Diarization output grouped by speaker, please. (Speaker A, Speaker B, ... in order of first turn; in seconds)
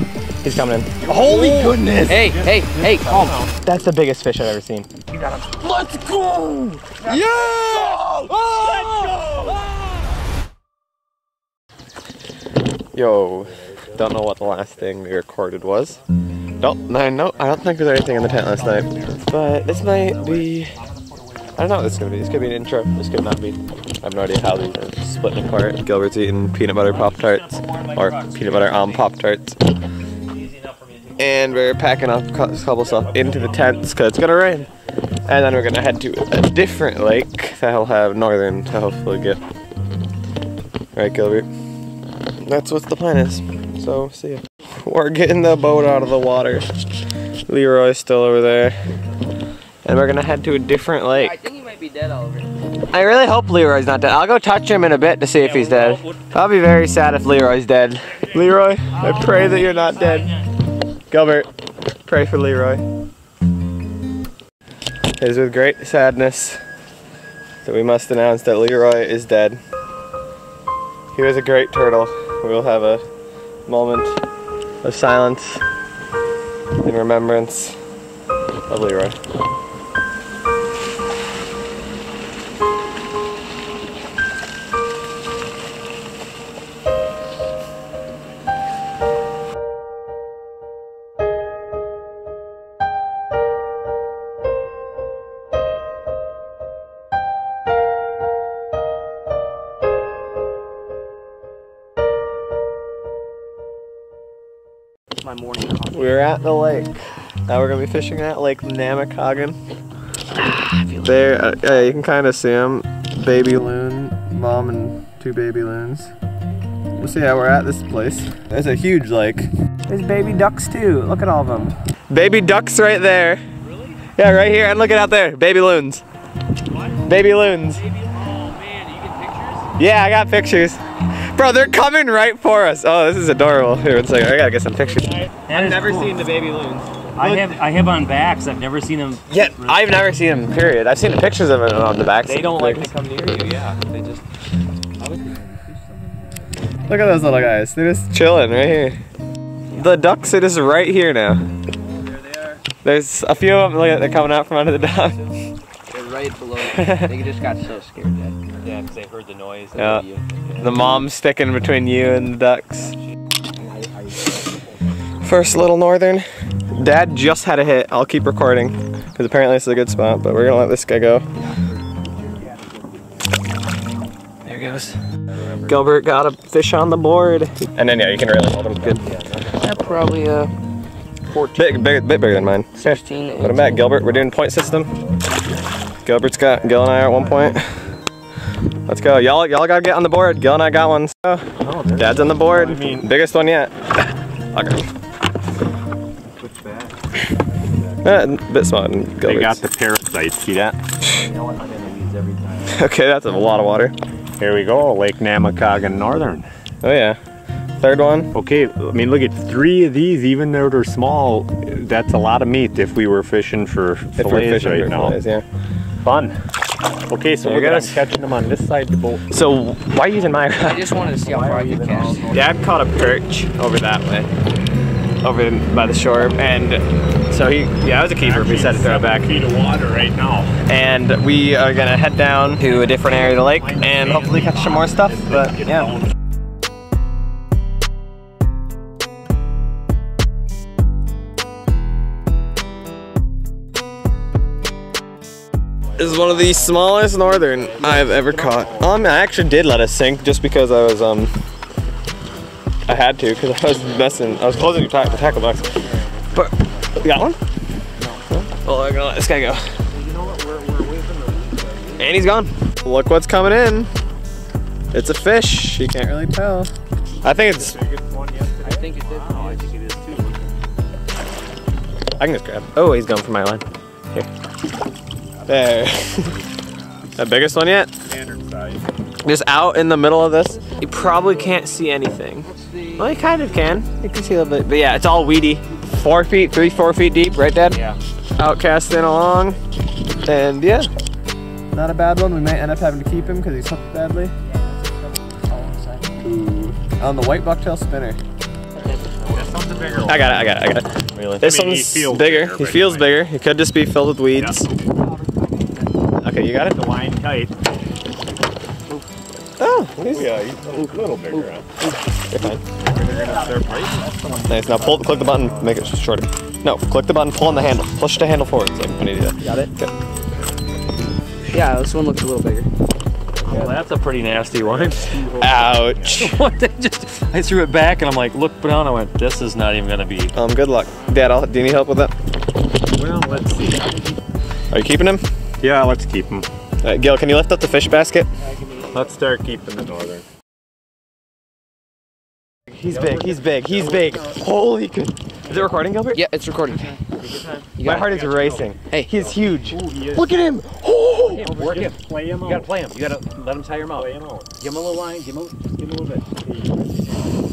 Speaker A: 0.4-2.3, 3.5-4.9, 7.0-9.7, 12.9-16.0, 16.6-20.8, 21.6-29.6, 31.2-34.7, 35.2-39.4, 40.9-41.5, 42.4-46.7, 47.5-48.9, 49.8-51.4, 52.9-60.4, 61.1-61.5, 62.0-62.8, 65.2-66.6, 67.6-69.6, 71.1-73.0, 73.7-74.2, 74.8-75.6, 76.8-77.8, 78.7-79.2, 105.9-109.5, 111.0-116.1, 117.0-123.4, 124.1-126.0, 127.0-127.8, 129.8-137.6, 139.3-142.9, 146.8-149.0, 149.7-151.4, 152.8-155.3, 156.6-157.1, 159.7-160.1, 160.6-163.0, 165.2-171.2, 174.4-175.0, 175.6-179.0, 181.5-184.9, 186.0-187.8, 188.8-194.0, 194.5-194.9, 198.0-199.6, 202.7-203.9, 206.8-207.2, 207.8-208.3, 214.2-215.4, 217.4-218.0, 219.3-221.0, 222.3-224.3, 225.2-229.3, 230.6-236.0, 245.9-251.3, 252.9-257.4, 258.3-259.7, 262.0-263.9, 264.9-266.7, 267.2-267.8, 272.2-274.3, 275.5-276.4, 277.1-277.9, 279.2-287.8, 288.4-289.6, 290.2-290.9, 291.7-294.3, 296.0-298.2, 300.1-304.7, 306.2-306.8, 309.6-310.6, 312.3-312.6, 314.4-319.9, 325.4-326.4, 330.3-332.1, 334.7-335.2, 336.8-338.3, 342.7-346.2, 347.8-351.5
Speaker B: 1.0-3.5, 5.1-9.7, 18.2-19.3, 19.8-22.0, 187.0-187.5, 192.1-193.1, 199.2-200.8, 204.4-206.5, 208.3-215.2, 216.0-216.3, 217.1-219.2, 221.2-222.9, 228.2-230.6, 232.7-236.1, 247.3-249.0, 258.0-258.2, 259.9-262.0, 267.3-269.7, 278.0-278.9, 299.3-300.4, 301.4-303.2, 304.3-304.7, 306.6-307.5, 309.9-311.7, 312.8-315.8, 323.4-326.1, 332.9-334.1, 335.6-336.4, 338.8-340.2, 342.9-344.4, 349.7-350.4, 351.4-352.7, 353.9-354.5, 356.4-357.2
Speaker C: 2.0-3.4, 51.1-52.5, 59.0-60.2, 105.2-106.2, 110.3-111.6, 155.9-158.4, 179.6-180.5, 182.7-184.0, 220.6-222.3, 268.6-269.7, 282.4-283.2, 294.5-296.1, 305.0-306.1, 310.7-312.0, 319.4-319.7, 321.5-322.7, 346.1-347.0, 347.8-348.1
Speaker D: 19.9-20.4, 26.8-29.2, 30.1-31.9, 32.8-34.7, 55.4-56.2, 59.0-60.4, 123.6-124.0, 126.7-129.7, 135.4-136.2, 137.2-140.0, 142.2-144.2, 145.0-145.7, 152.0-152.6, 158.6-160.8, 175.3-175.9, 178.5-180.1, 187.2-187.7, 191.6-192.3, 196.4-198.0, 201.0-202.8, 247.7-248.3, 254.6-255.6, 260.1-261.5, 269.1-270.5, 287.7-288.0, 299.2-300.3, 301.1-301.5, 312.8-314.8, 315.4-315.8, 323.4-325.4, 326.0-330.3, 347.2-348.7, 351.2-356.3